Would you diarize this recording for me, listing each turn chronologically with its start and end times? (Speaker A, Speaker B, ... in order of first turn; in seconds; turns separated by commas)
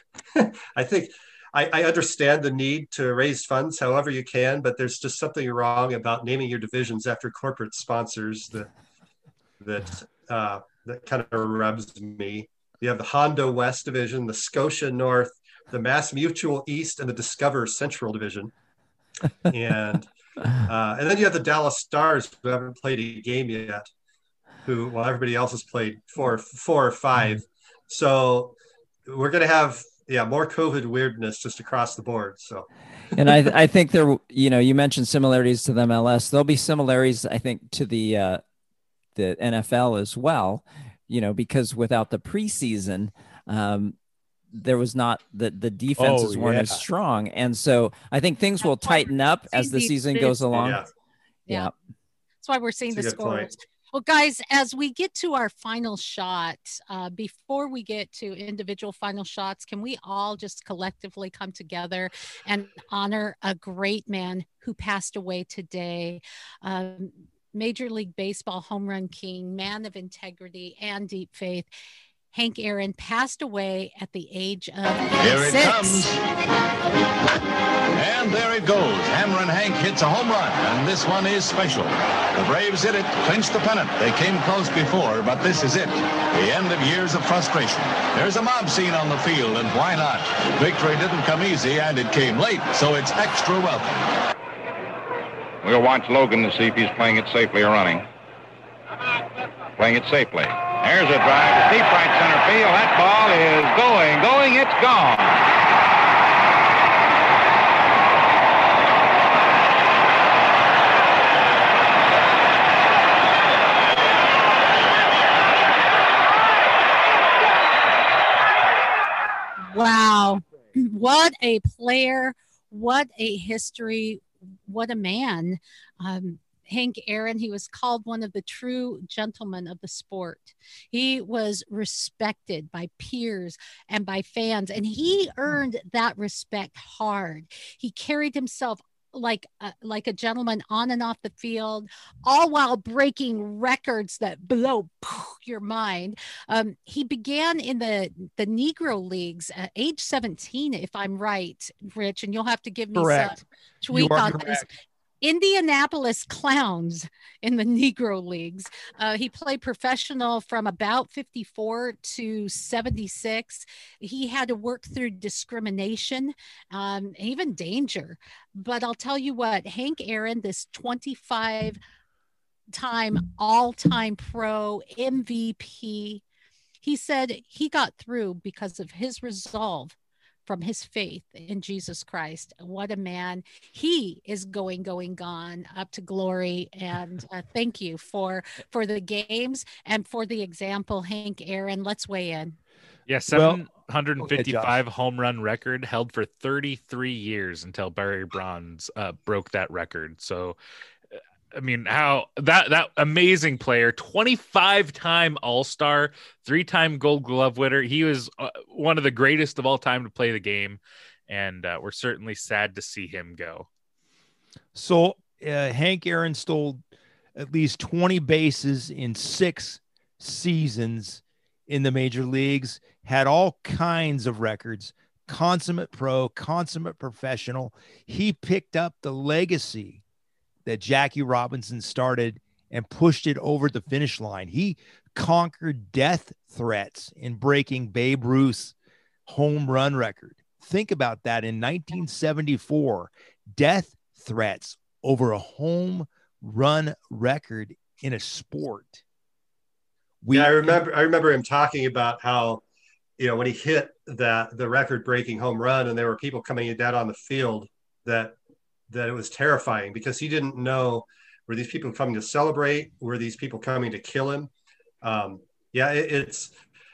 Speaker A: 0.3-8.7, Speaker A: 9.6-18.5, Speaker A: 19.5-20.1, Speaker A: 20.6-23.9, Speaker A: 24.6-28.5, Speaker A: 29.1-32.7, Speaker B: 33.1-38.4, Speaker B: 39.1-44.0, Speaker B: 44.5-50.8, Speaker C: 46.0-46.8, Speaker D: 48.6-50.5, Speaker A: 50.5-50.9, Speaker D: 52.4-71.7, Speaker A: 52.9-53.5, Speaker D: 72.3-76.1, Speaker E: 75.2-76.2, Speaker E: 77.9-94.1, Speaker F: 95.6-98.0, Speaker F: 99.8-105.4, Speaker D: 119.6-154.7, Speaker C: 152.9-154.7, Speaker D: 155.2-171.8, Speaker D: 172.7-176.2, Speaker D: 176.8-192.6, Speaker G: 193.1-200.6, Speaker C: 193.3-193.6, Speaker C: 194.2-194.8, Speaker G: 201.5-213.7, Speaker C: 214.7-216.8, Speaker C: 217.3-230.0, Speaker C: 230.7-238.7, Speaker C: 239.2-249.0, Speaker C: 250.2-250.8, Speaker A: 250.3-252.6, Speaker A: 253.2-258.4, Speaker A: 258.9-264.5, Speaker A: 265.0-266.5